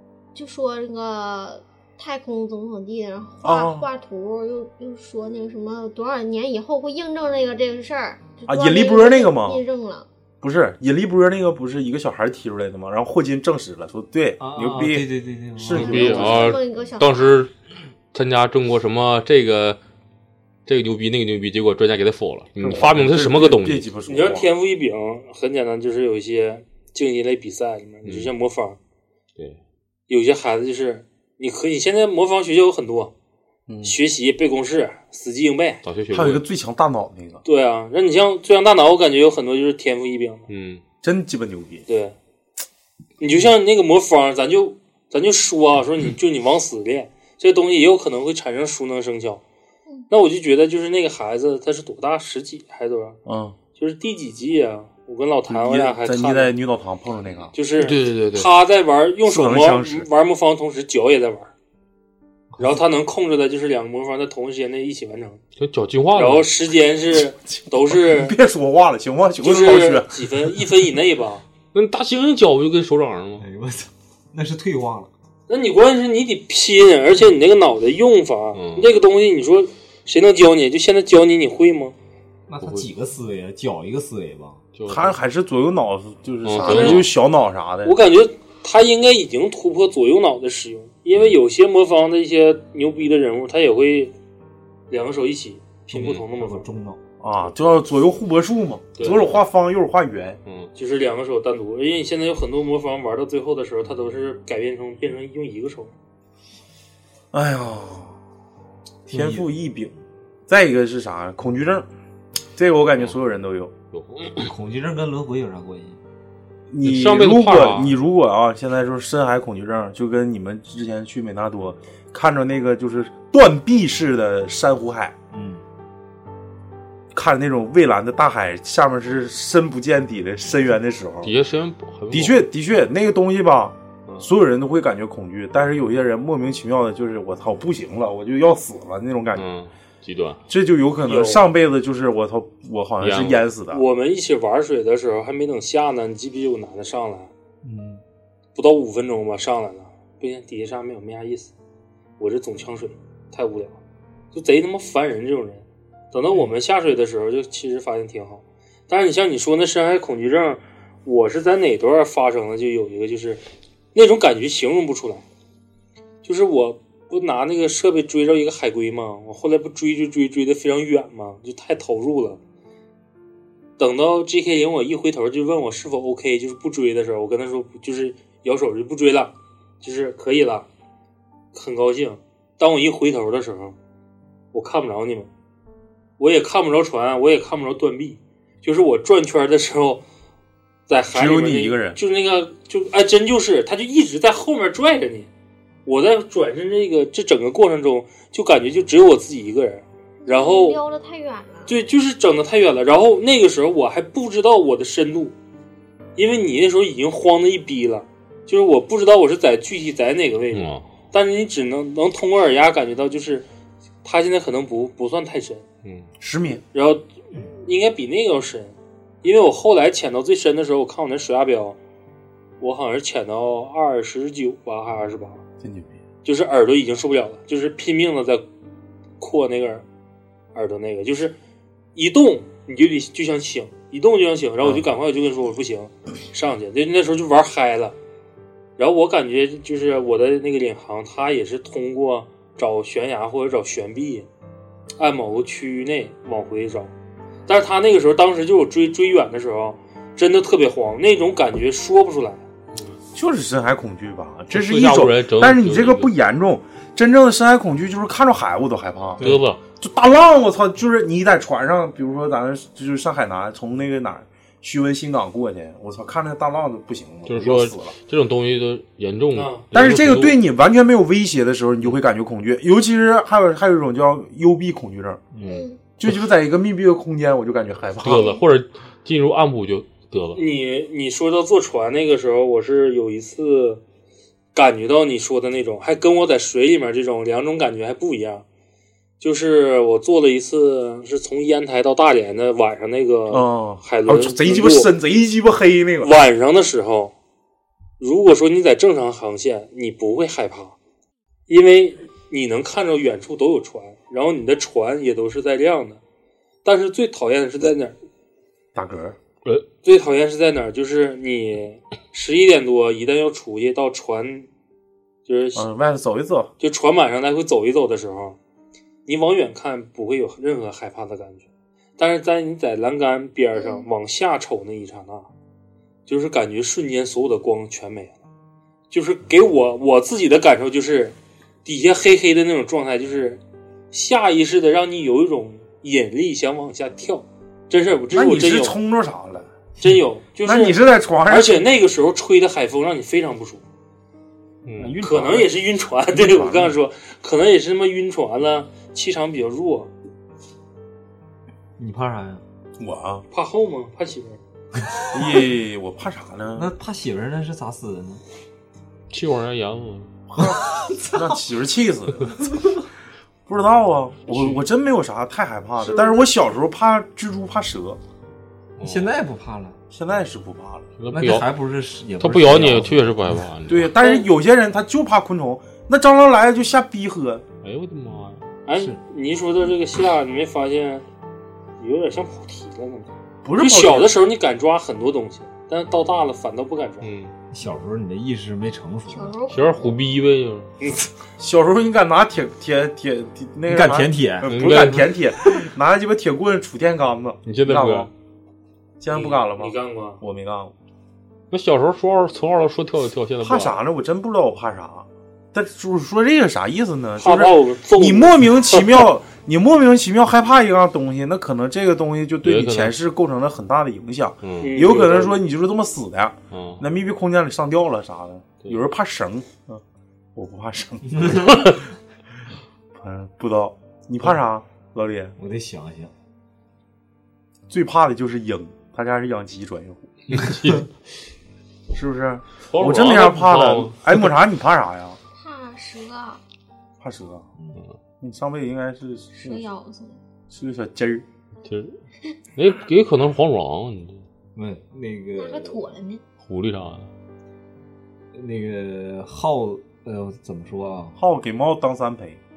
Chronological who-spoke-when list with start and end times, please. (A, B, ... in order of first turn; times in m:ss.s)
0:00.3-0:10.0 A
0:03.4-0:03.9 B
0:08.5-0:09.6 B
0:10.4-0:16.6 B
0:14.4-0:16.3 C
0:15.7-0:17.5 D
0:15.7-0:17.4 A
0:18.1-0:19.8 D
0:20.6-0:23.8 D
0:22.6-0:24.5 B
0:24.1-0:28.8 E
0:28.0-0:28.3 D
0:30.1-0:33.1 E
0:33.7-0:34.0 B
0:33.8-0:35.8 E
0:35.8-0:36.4 D
0:36.1-0:37.4 B
0:37.4-0:40.5 E
0:40.5-0:40.8 D
0:41.0-0:41.8 B
0:41.9-0:42.1 E
0:43.2-0:49.4 E
0:50.1-0:53.2 E
0:53.2-0:53.6 B
0:53.7-0:56.5 E
0:55.5-0:57.5 B
0:57.5-1:01.5 E
0:57.8-0:58.5 D
0:59.2-1:00.1 B
1:02.6-1:05.4 E
1:05.6-1:06.5 D
1:06.1-1:08.3 E
1:07.9-1:10.2 B
1:09.4-1:11.4 E
1:11.7-1:13.4 D
1:13.4-1:15.1 C
1:15.5-1:21.9 E
1:18.5-1:18.9 D
1:22.5-1:24.6 C
1:22.6-1:22.9 D
1:24.7-1:25.1 D
1:24.9-1:28.0 B
1:26.4-1:27.1 D
1:26.6-1:27.1 E
1:27.8-1:34.1 E
1:31.1-1:31.4 D
1:34.9-1:36.7 E
1:35.9-1:37.0 C
1:36.0-1:36.2 D
1:37.2-1:40.4 B
1:39.0-1:39.4 D
1:40.4-1:40.7 D
1:40.8-1:45.9 E
1:47.3-1:48.2 B
1:49.1-1:49.5 C
1:49.1-1:49.9 B
1:50.5-1:51.9 B
1:52.6-1:53.7 B
1:53.9-1:54.5 D
1:54.4-1:56.0 C
1:56.7-2:05.1 B
1:56.8-1:57.9 D
2:05.3-2:05.6 C
2:07.1-2:11.3 B
2:11.2-2:12.4 D
2:12.1-2:19.5 B
2:19.3-2:20.4 D
2:20.5-2:23.8 B
2:21.0-2:21.4 E
2:23.0-2:23.4 D
2:23.7-2:27.3 E
2:27.6-2:28.0 B
2:28.5-2:31.5 E
2:32.2-2:33.8 E
2:34.3-2:43.4 E
2:43.9-2:45.2 E
2:46.2-2:52.4 E
2:53.8-3:00.7 E
3:01.5-3:03.8 E
3:04.5-3:05.3 E
3:06.2-3:10.0 E
3:10.9-3:15.3 E
3:11.1-3:12.0 B
3:15.8-3:20.8 E
3:20.2-3:21.7 A
3:21.7-3:25.3 E
3:26.2-3:33.5 E
3:30.5-3:30.8 D
3:34.0-3:35.6 E
3:36.2-3:36.6 B
3:36.7-3:37.1 E
3:37.6-3:41.8 E
3:42.6-3:45.4 E
3:45.6-3:46.0 B
3:46.2-3:48.4 E
3:49.2-3:49.8 E
3:50.5-3:51.4 E
3:51.9-3:58.0 E
3:58.8-4:04.3 E
4:05.0-4:06.9 E
4:07.5-4:12.4 E
4:13.1-4:27.9 B
4:14.5-4:16.1 D
4:19.2-4:19.5 C
4:19.2-4:19.6 D
4:27.2-4:30.4 D
4:29.3-4:29.6 E
4:29.7-4:35.2 B
4:35.3-4:35.6 C
4:35.4-4:35.8 A
4:36.0-4:38.4 B
4:38.0-4:40.4 D
4:40.3-4:43.8 E
4:44.5-4:48.4 E
4:49.2-4:54.9 E
4:53.3-4:56.1 B
4:56.0-4:57.1 E
4:58.0-5:00.8 E
5:01.5-5:06.0 E
5:06.6-5:08.0 E
5:08.7-5:09.2 B
5:09.8-5:14.5 E
5:15.2-5:15.6 E
5:15.5-5:16.5 B
5:16.6-5:18.4 E
5:19.0-5:25.3 E
5:23.6-5:23.9 A
5:26.1-5:28.2 E
5:28.9-5:38.8 E
5:38.1-5:39.5 B
5:39.8-5:43.6 E
5:40.4-5:41.7 B
5:44.6-5:44.9 D
5:44.8-5:45.6 B
5:45.0-5:49.9 E
5:46.1-5:46.8 B
5:51.8-5:52.4 C
5:52.8-5:53.2 B
5:53.3-5:54.4 E
5:55.1-5:56.7 B
5:56.5-5:58.2 C
5:59.1-6:00.1 D
6:00.3-6:02.6 B
6:00.4-6:01.2 C
6:03.5-6:08.0 B
6:04.3-6:04.6 D
6:08.8-6:09.1 D
6:08.8-6:09.8 C
6:09.9-6:10.9 B
6:11.0-6:11.5 D
6:11.1-6:13.3 C
6:12.2-6:13.9 D
6:13.7-6:17.4 B
6:17.6-6:18.4 D
6:18.7-6:21.0 E
6:18.7-6:19.0 C
6:21.8-6:27.1 E
6:23.4-6:24.2 B
6:27.0-6:27.3 D
6:27.5-6:29.4 C
6:29.1-6:30.0 A
6:29.5-6:30.7 D
6:30.8-6:31.1 E
6:31.4-6:38.1 B
6:33.7-6:34.5 C
6:34.4-6:35.1 D
6:37.4-6:38.1 D
6:39.0-6:40.7 B
6:39.1-6:40.2 E
6:41.5-6:43.8 D
6:43.4-6:59.8 B
6:47.2-6:48.9 E
6:52.4-6:53.0 D
6:54.4-6:54.9 D
6:54.6-6:55.4 E
6:56.5-6:56.8 D
7:00.4-7:01.6 B
7:01.1-7:01.5 C
7:03.0-7:05.3 B
7:05.4-7:06.1 C
7:07.7-7:10.1 B
7:10.3-7:10.8 D
7:11.9-7:15.2 B
7:12.7-7:14.1 D
7:15.3-7:16.4 A
7:17.0-7:17.4 B
7:18.2-7:19.6 B
7:19.3-7:20.2 A
7:20.5-7:21.2 B
7:21.6-7:22.0 D
7:22.6-7:24.2 D
7:24.5-7:25.8 C
7:25.4-7:26.2 A
7:26.4-7:27.1 D
7:28.3-7:31.2 C
7:31.2-7:32.4 B